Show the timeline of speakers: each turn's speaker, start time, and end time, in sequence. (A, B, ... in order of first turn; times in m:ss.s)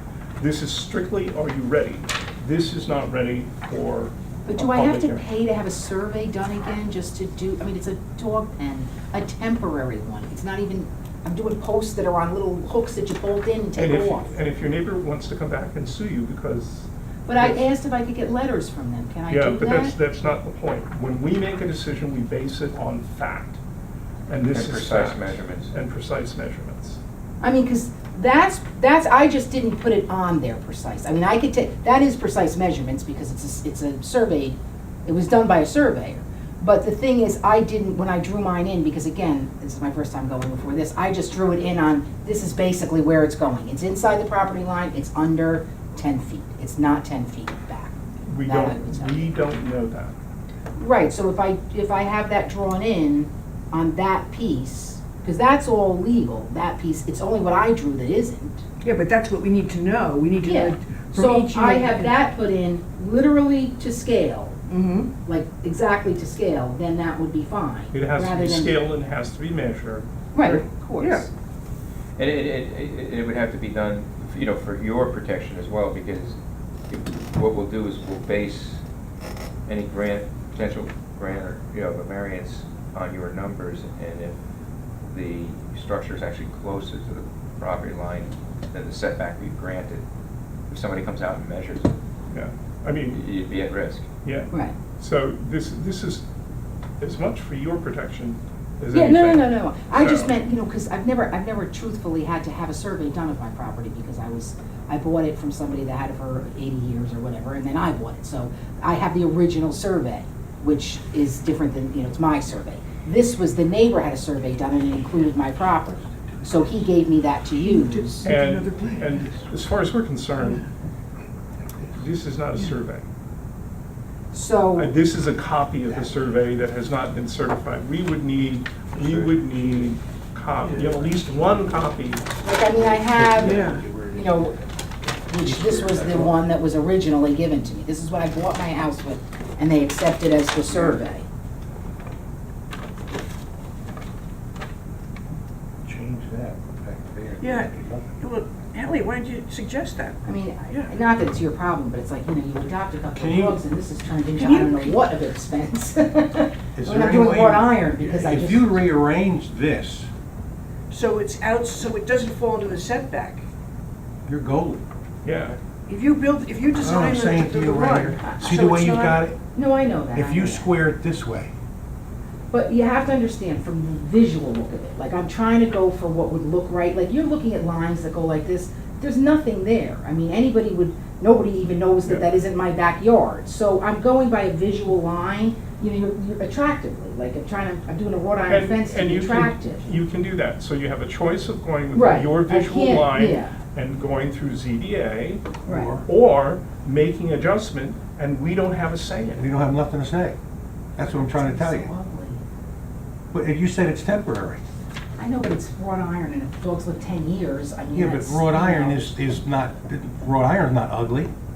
0:00.4-0:05.3 A
0:04.5-0:14.3 B
0:13.8-0:17.7 A
0:17.3-0:20.0 B
0:19.3-0:23.6 A
0:24.3-0:27.0 A
0:24.5-0:25.7 C
0:27.4-0:49.3 B
0:48.3-0:50.1 A
0:50.8-0:58.6 B
0:58.8-1:02.1 D
1:00.4-1:04.6 B
1:04.7-1:05.1 D
1:05.2-1:08.7 B
1:07.9-1:10.6 A
1:10.3-1:11.3 B
1:10.5-1:11.2 D
1:12.2-1:16.4 C
1:16.9-1:18.8 C
1:19.7-1:24.4 C
1:25.1-1:30.0 C
1:30.7-1:31.9 C
1:32.3-1:33.2 A
1:33.1-1:34.1 C
1:34.2-1:36.2 A
1:37.0-1:40.3 A
1:38.9-1:58.3 B
1:57.6-1:59.4 D
1:58.2-2:00.6 A
2:01.9-2:03.0 A
2:04.3-2:05.0 B
2:04.7-2:12.3 A
2:09.0-2:09.6 C
2:10.7-2:11.8 E
2:12.4-2:14.6 B
2:12.5-2:14.5 E
2:13.4-2:13.8 D
2:15.3-2:21.2 B
2:15.4-2:16.3 E
2:25.8-2:28.1 E
2:27.4-2:30.9 D
2:30.2-2:38.7 B
2:33.2-2:33.6 E
2:34.4-2:35.0 D
2:36.8-2:40.1 E
2:40.9-2:43.4 D
2:44.3-2:44.8 E
2:45.2-2:45.6 A
2:45.9-2:49.2 D
2:46.8-2:49.4 E
2:48.2-2:48.5 B
2:49.5-2:50.7 B
2:50.1-2:51.5 E
2:52.5-3:09.9 B
3:08.5-3:19.5 A
3:11.9-3:13.6 B
3:15.6-3:16.0 B
3:15.6-3:16.0 E
3:19.4-3:20.4 E
3:21.0-3:21.9 E
3:21.0-3:22.4 B
3:23.3-3:24.6 E
3:25.2-3:29.1 B
3:27.9-3:31.3 E